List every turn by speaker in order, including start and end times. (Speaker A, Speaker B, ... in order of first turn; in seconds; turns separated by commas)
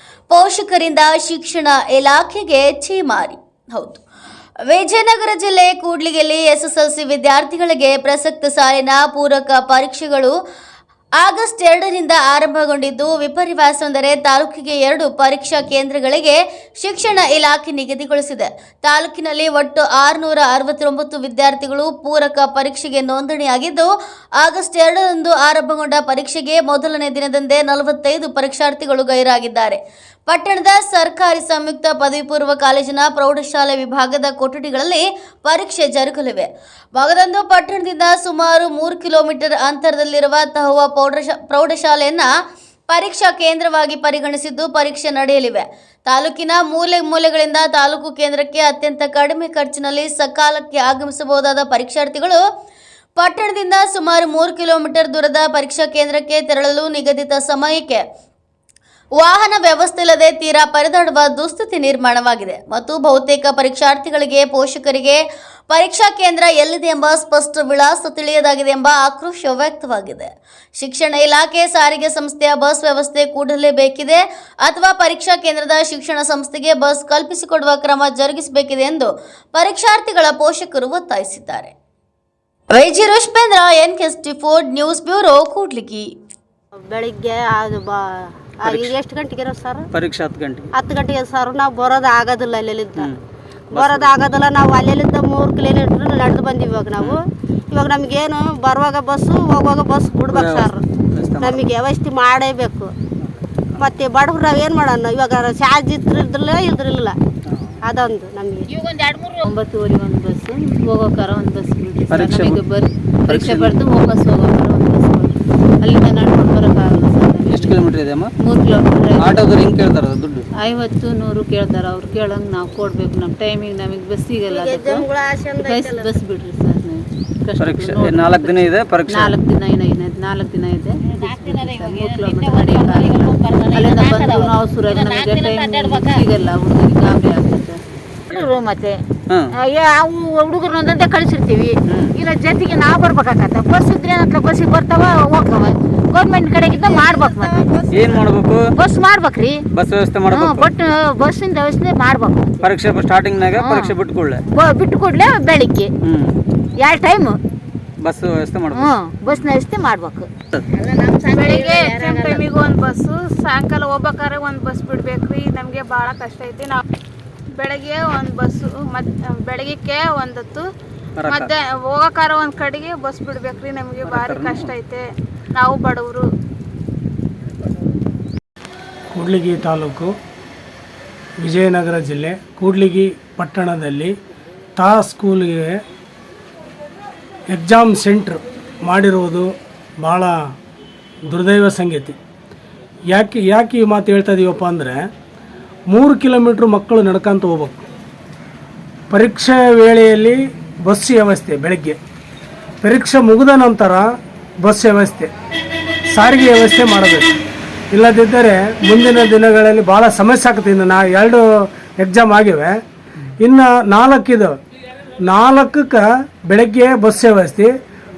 Speaker A: 0.3-4.0, Speaker A: 4.7-10.3, Speaker A: 11.2-42.3, Speaker A: 42.9-52.4, Speaker A: 53.2-58.0, Speaker A: 59.2-81.7, Speaker A: 82.7-86.1, Speaker B: 86.8-89.8, Speaker C: 88.6-88.9, Speaker C: 89.9-90.7, Speaker B: 90.8-93.1, Speaker B: 93.7-100.8, Speaker C: 93.7-94.2, Speaker C: 100.3-101.6, Speaker B: 101.4-102.9, Speaker B: 103.8-107.2, Speaker C: 107.5-107.8, Speaker B: 107.8-108.7, Speaker D: 108.7-109.5, Speaker E: 109.4-117.8, Speaker C: 112.1-112.6, Speaker C: 113.3-113.7, Speaker C: 117.5-118.3, Speaker E: 118.4-119.5, Speaker C: 119.2-120.5, Speaker E: 120.6-125.0, Speaker B: 124.5-126.1, Speaker E: 125.6-137.8, Speaker C: 127.6-129.3, Speaker D: 131.1-136.2, Speaker D: 138.3-139.0, Speaker C: 139.3-139.5, Speaker D: 139.6-148.2, Speaker C: 141.9-142.1, Speaker C: 147.9-148.6, Speaker D: 148.8-149.6, Speaker C: 149.7-150.7, Speaker D: 150.3-152.6, Speaker C: 152.6-154.4, Speaker D: 153.5-154.0, Speaker D: 154.5-155.9, Speaker C: 156.0-156.3, Speaker D: 156.8-157.4, Speaker C: 158.0-159.4, Speaker D: 158.7-162.4, Speaker F: 161.3-166.8, Speaker F: 167.6-170.6, Speaker C: 171.2-171.5, Speaker F: 171.3-175.0, Speaker C: 174.0-174.7, Speaker F: 175.6-176.2, Speaker G: 179.1-180.1, Speaker G: 181.4-184.1, Speaker G: 184.8-185.8, Speaker G: 187.5-189.5, Speaker G: 190.0-190.3, Speaker G: 191.3-192.2, Speaker G: 193.1-195.0, Speaker G: 195.9-197.8, Speaker G: 199.1-202.0, Speaker G: 202.8-204.1, Speaker G: 204.6-205.3, Speaker G: 206.2-207.3, Speaker G: 207.9-211.4, Speaker G: 212.0-212.8, Speaker G: 213.4-214.5, Speaker G: 215.3-217.7